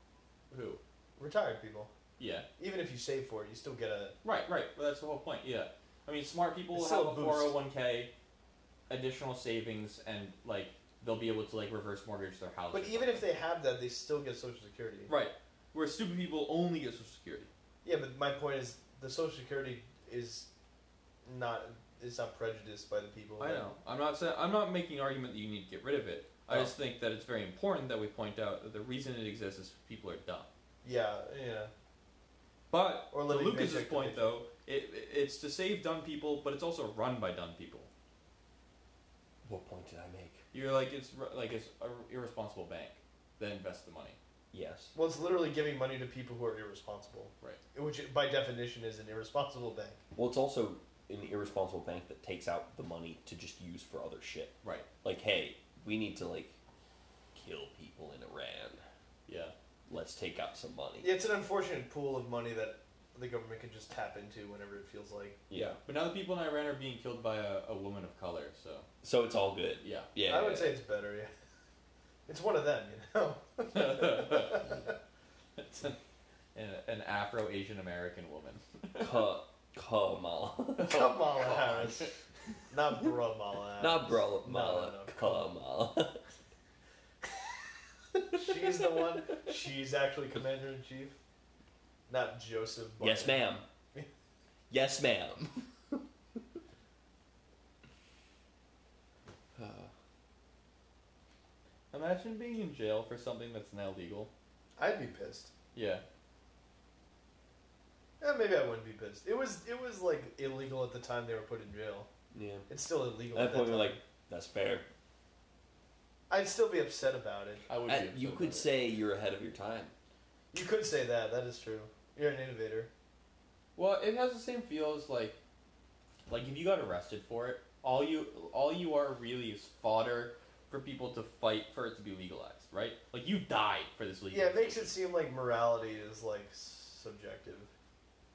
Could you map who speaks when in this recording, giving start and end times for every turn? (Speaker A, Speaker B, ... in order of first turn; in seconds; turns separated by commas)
Speaker A: 0.5-0.8, Speaker B: 1.2-1.9, Speaker A: 2.2-2.5, Speaker B: 2.6-4.2, Speaker A: 4.2-8.1, Speaker B: 6.7-7.5, Speaker A: 8.9-13.2, Speaker B: 12.7-15.1, Speaker A: 15.1-17.5, Speaker B: 17.8-20.5, Speaker B: 21.2-23.7, Speaker A: 23.4-30.5, Speaker B: 30.8-31.7, Speaker A: 32.7-37.9, Speaker B: 33.1-34.4, Speaker C: 39.5-40.4, Speaker A: 40.5-44.2, Speaker C: 44.5-44.9, Speaker B: 45.0-50.0, Speaker C: 50.2-56.6, Speaker C: 57.3-58.8, Speaker A: 59.3-59.5, Speaker C: 59.9-61.1, Speaker B: 61.0-65.4, Speaker C: 65.5-65.8, Speaker A: 65.5-68.9, Speaker C: 69.0-70.8, Speaker A: 69.8-70.1, Speaker B: 70.2-71.3, Speaker B: 72.3-75.0, Speaker A: 73.7-74.7, Speaker A: 75.6-76.0, Speaker A: 76.5-79.2, Speaker C: 79.0-81.1, Speaker B: 80.8-82.1, Speaker A: 80.8-82.1, Speaker B: 82.7-85.5, Speaker C: 83.8-86.2, Speaker B: 88.3-91.2, Speaker B: 92.1-94.1, Speaker C: 93.0-93.7, Speaker C: 94.7-96.0, Speaker C: 99.6-99.9, Speaker A: 101.9-104.3, Speaker B: 104.8-105.5, Speaker A: 105.7-106.0, Speaker B: 108.2-112.1, Speaker C: 112.3-112.7, Speaker B: 112.7-114.0, Speaker C: 113.3-114.9, Speaker B: 116.3-117.7, Speaker A: 117.7-118.7, Speaker C: 117.9-119.9, Speaker B: 120.5-122.9, Speaker A: 123.8-125.4, Speaker A: 126.3-134.9, Speaker B: 134.3-137.7